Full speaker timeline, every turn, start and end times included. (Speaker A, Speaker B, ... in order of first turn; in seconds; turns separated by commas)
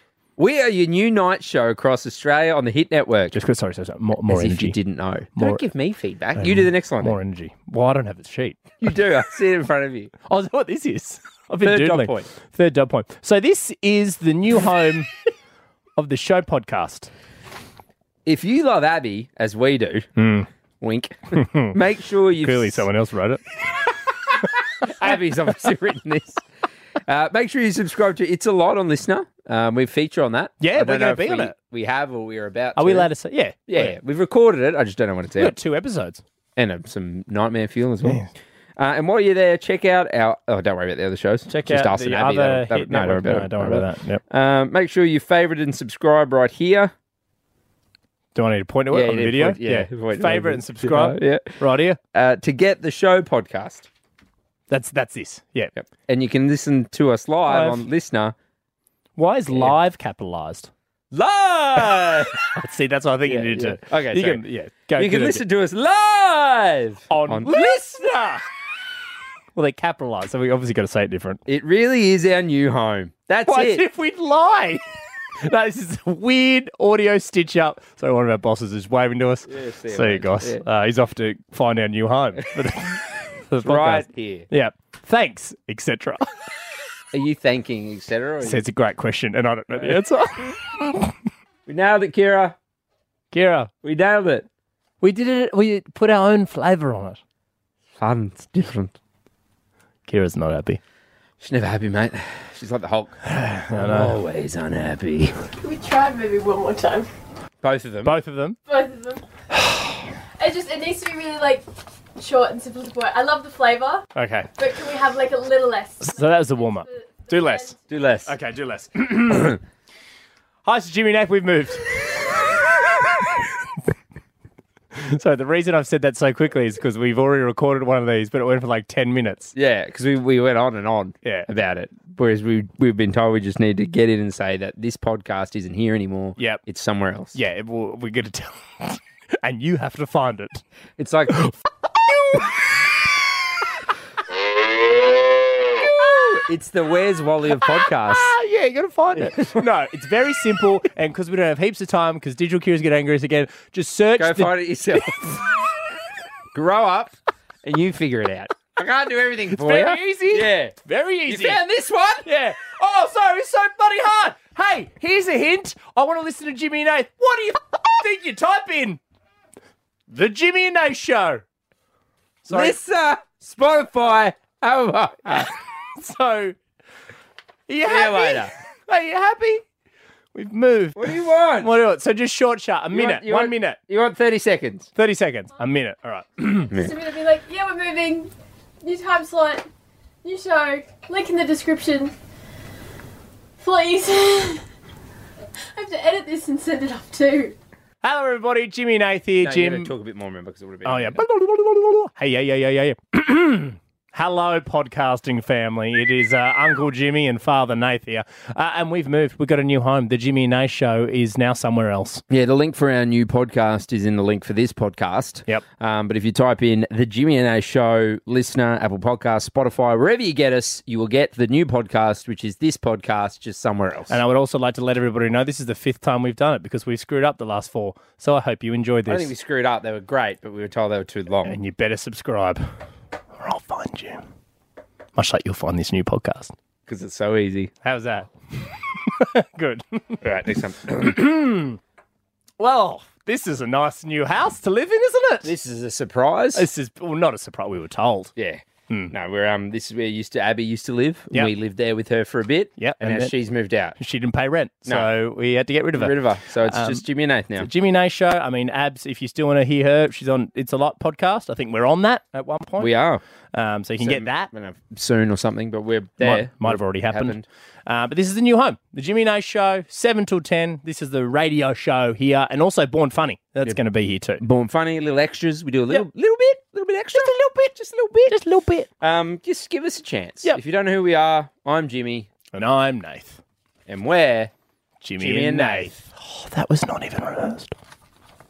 Speaker A: 0.4-3.4, Speaker B: 3.3-4.8, Speaker A: 4.3-7.2, Speaker B: 5.3-5.6, Speaker B: 6.3-8.8, Speaker A: 8.8-10.1, Speaker B: 10.3-15.1, Speaker A: 11.6-12.3, Speaker B: 16.0-17.1, Speaker A: 18.2-20.1, Speaker B: 20.2-20.5, Speaker A: 20.8-22.9, Speaker B: 21.3-21.8, Speaker B: 22.4-23.4, Speaker A: 24.3-26.4, Speaker A: 27.1-33.1, Speaker B: 30.6-31.5, Speaker B: 32.8-33.9, Speaker A: 33.7-35.5, Speaker B: 35.4-36.2, Speaker A: 36.5-38.2, Speaker B: 38.0-38.3, Speaker A: 38.8-46.9, Speaker B: 41.5-44.2, Speaker B: 48.3-52.0, Speaker A: 48.9-51.6, Speaker A: 52.1-53.9, Speaker B: 54.7-55.7, Speaker A: 55.7-58.3, Speaker B: 57.5-57.9, Speaker B: 59.2-60.7, Speaker A: 61.1-62.4, Speaker B: 62.5-65.4, Speaker A: 63.2-64.4, Speaker A: 65.0-68.1, Speaker B: 67.1-68.4, Speaker B: 69.5-71.4, Speaker A: 71.5-73.8, Speaker B: 73.5-74.8, Speaker B: 75.4-86.3, Speaker A: 79.5-80.6, Speaker A: 83.6-84.5, Speaker A: 87.1-88.6, Speaker B: 88.4-91.1, Speaker A: 91.7-92.5, Speaker B: 93.3-93.7, Speaker A: 93.8-94.5, Speaker B: 95.0-97.2, Speaker A: 98.0-99.0, Speaker B: 100.1-100.8, Speaker A: 101.4-105.3, Speaker B: 103.2-104.2, Speaker C: 105.6-107.1, Speaker A: 107.6-108.2, Speaker B: 108.0-108.6, Speaker C: 108.7-109.2, Speaker C: 110.4-111.6, Speaker C: 112.2-117.7, Speaker B: 114.1-114.5, Speaker B: 116.0-119.6, Speaker A: 117.9-118.3, Speaker B: 120.6-122.5, Speaker B: 124.9-129.5, Speaker A: 129.5-137.4, Speaker B: 137.3-140.6, Speaker A: 141.0-141.3, Speaker B: 141.3-142.7, Speaker A: 145.9-148.4, Speaker B: 147.6-155.7, Speaker A: 149.1-149.7, Speaker A: 154.2-155.2, Speaker A: 156.5-160.7, Speaker B: 159.5-161.6, Speaker A: 161.3-162.3, Speaker B: 162.2-169.0, Speaker B: 170.1-171.4, Speaker B: 172.4-172.8, Speaker A: 172.5-175.5, Speaker B: 175.9-176.6, Speaker B: 177.7-179.6, Speaker A: 177.8-178.5, Speaker B: 180.3-183.8, Speaker A: 180.9-181.7, Speaker A: 182.9-184.9, Speaker B: 184.9-186.7, Speaker A: 186.7-186.9, Speaker C: 186.7-189.7, Speaker C: 190.2-192.1, Speaker C: 193.6-194.6, Speaker C: 195.7-197.5, Speaker B: 198.0-199.9, Speaker A: 199.4-201.2, Speaker B: 200.8-212.2, Speaker A: 212.3-224.2, Speaker B: 224.1-229.3, Speaker A: 229.1-231.6, Speaker B: 231.4-232.6, Speaker B: 233.4-234.2, Speaker B: 235.1-236.5, Speaker A: 236.9-237.7, Speaker B: 237.8-240.2, Speaker A: 240.2-241.2, Speaker B: 240.8-241.8, Speaker B: 242.6-245.5, Speaker A: 245.4-246.7, Speaker B: 246.5-248.3, Speaker A: 248.3-254.0, Speaker B: 252.8-253.3, Speaker B: 254.0-257.0, Speaker A: 255.9-257.7, Speaker B: 257.6-262.9, Speaker A: 262.8-263.2, Speaker B: 263.5-264.5, Speaker A: 264.0-267.4, Speaker B: 266.2-274.4, Speaker A: 274.4-278.3, Speaker B: 277.1-277.6, Speaker B: 278.3-278.9, Speaker A: 279.0-282.3, Speaker B: 282.5-283.4, Speaker A: 283.9-284.5, Speaker B: 285.0-287.7, Speaker A: 285.2-286.0